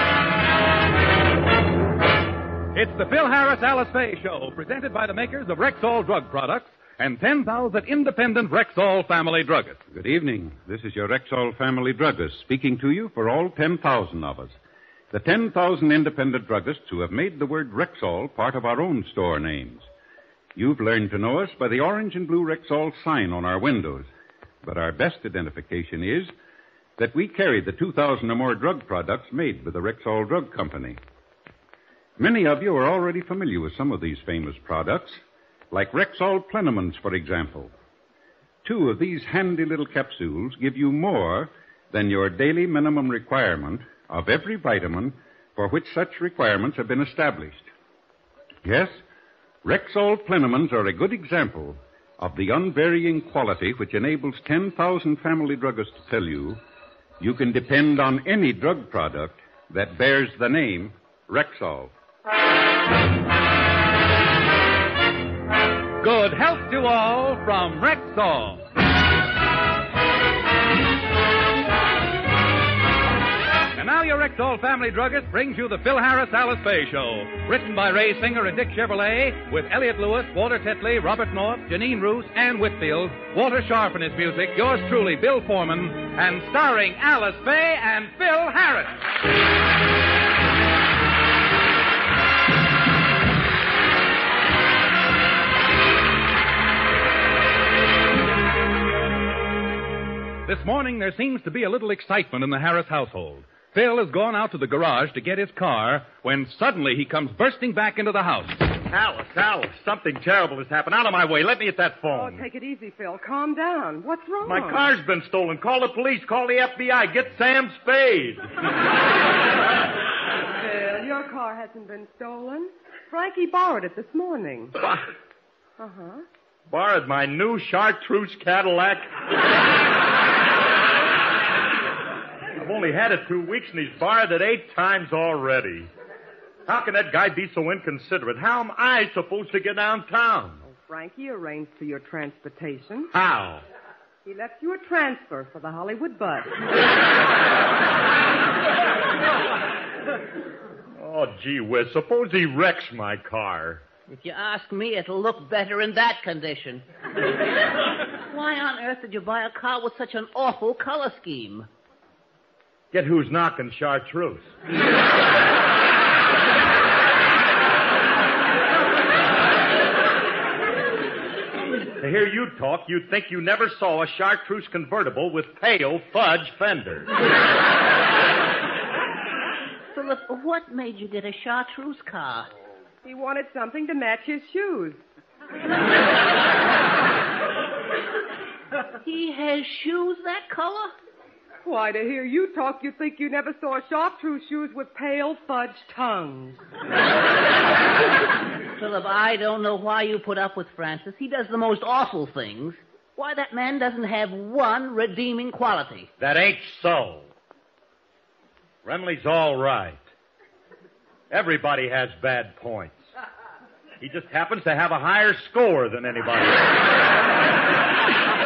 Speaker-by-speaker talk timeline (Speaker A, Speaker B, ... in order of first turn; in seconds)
Speaker A: 2.7-9.8, 66.0-68.6, 73.7-89.0, 100.5-108.6
Speaker B: 9.9-14.6, 15.1-19.9, 20.5-24.1, 24.6-26.3, 27.0-31.0, 32.2-37.7, 38.6-47.7, 48.6-49.0, 49.6-56.6, 57.2-61.9
Speaker C: 108.9-112.4, 114.4-118.5, 126.7-129.1, 132.6-135.9, 136.7-140.6, 143.1-143.6, 150.9-153.8, 162.9-164.5, 172.0-177.1, 206.2-207.3, 208.8-210.0, 211.3-213.0, 214.0-216.8
Speaker D: 112.1-114.9, 120.5-124.8, 125.8-126.2, 140.7-143.1, 144.2-146.5, 183.0-185.0, 191.6-196.6
Speaker E: 154.1-156.8, 158.3-161.7, 179.9-182.5, 189.0-190.9, 198.8-206.1